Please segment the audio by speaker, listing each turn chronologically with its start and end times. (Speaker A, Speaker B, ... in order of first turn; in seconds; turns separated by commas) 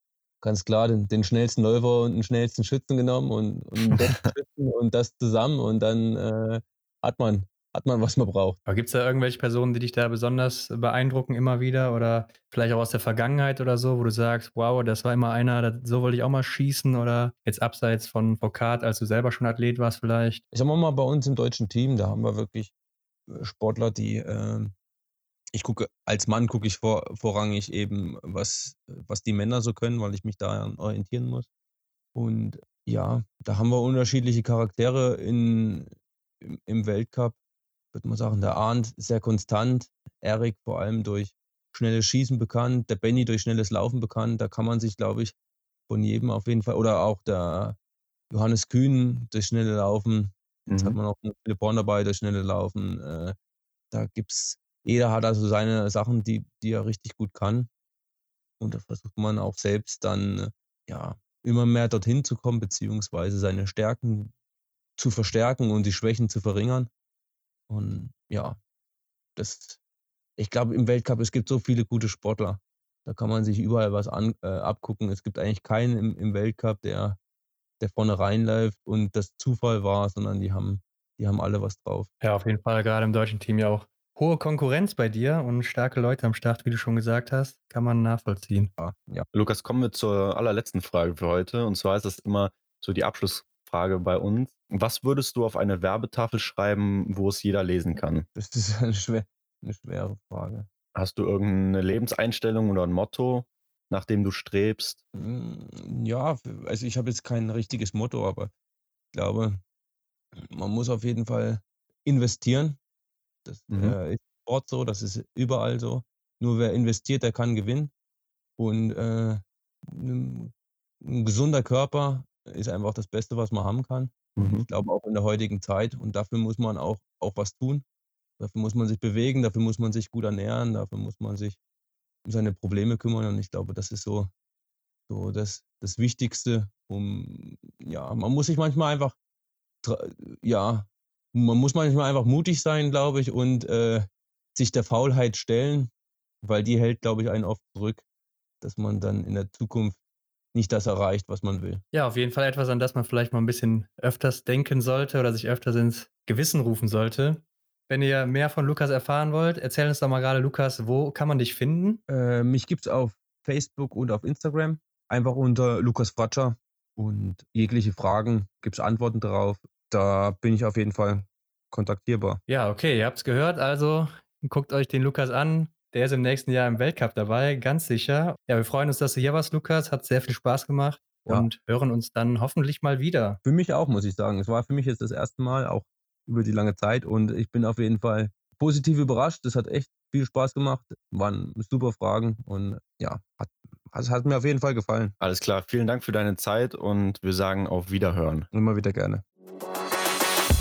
Speaker A: 0.4-8.6, Speaker B: 8.7-20.4, Speaker A: 20.5-22.7, Speaker A: 23.3-24.7, Speaker A: 25.5-31.5, Speaker A: 32.1-35.9, Speaker A: 36.4-37.4, Speaker A: 37.9-45.3, Speaker A: 45.9-47.8, Speaker A: 48.3-53.4, Speaker C: 50.7-51.0, Speaker A: 53.9-57.7, Speaker A: 58.6-64.3, Speaker A: 65.0-66.9, Speaker A: 67.7-68.6, Speaker A: 69.4-69.8, Speaker A: 70.4-77.2, Speaker A: 77.8-82.1, Speaker B: 82.2-88.7, Speaker A: 88.8-89.3, Speaker C: 89.3-98.3, Speaker A: 98.3-100.7, Speaker C: 101.0-105.0, Speaker A: 105.1-108.5, Speaker A: 109.1-109.6, Speaker A: 110.4-112.8, Speaker A: 113.5-117.9, Speaker C: 113.7-114.0, Speaker A: 118.6-127.8, Speaker C: 124.4-124.6, Speaker A: 128.4-131.6, Speaker A: 132.2-134.3, Speaker A: 135.1-139.2, Speaker A: 139.8-145.9, Speaker A: 146.4-148.0, Speaker A: 148.6-150.0, Speaker A: 150.5-151.8, Speaker B: 151.9-162.0, Speaker A: 162.1-172.4, Speaker B: 172.5-183.4, Speaker A: 183.4-195.1, Speaker C: 195.2-198.5, Speaker A: 198.5-199.2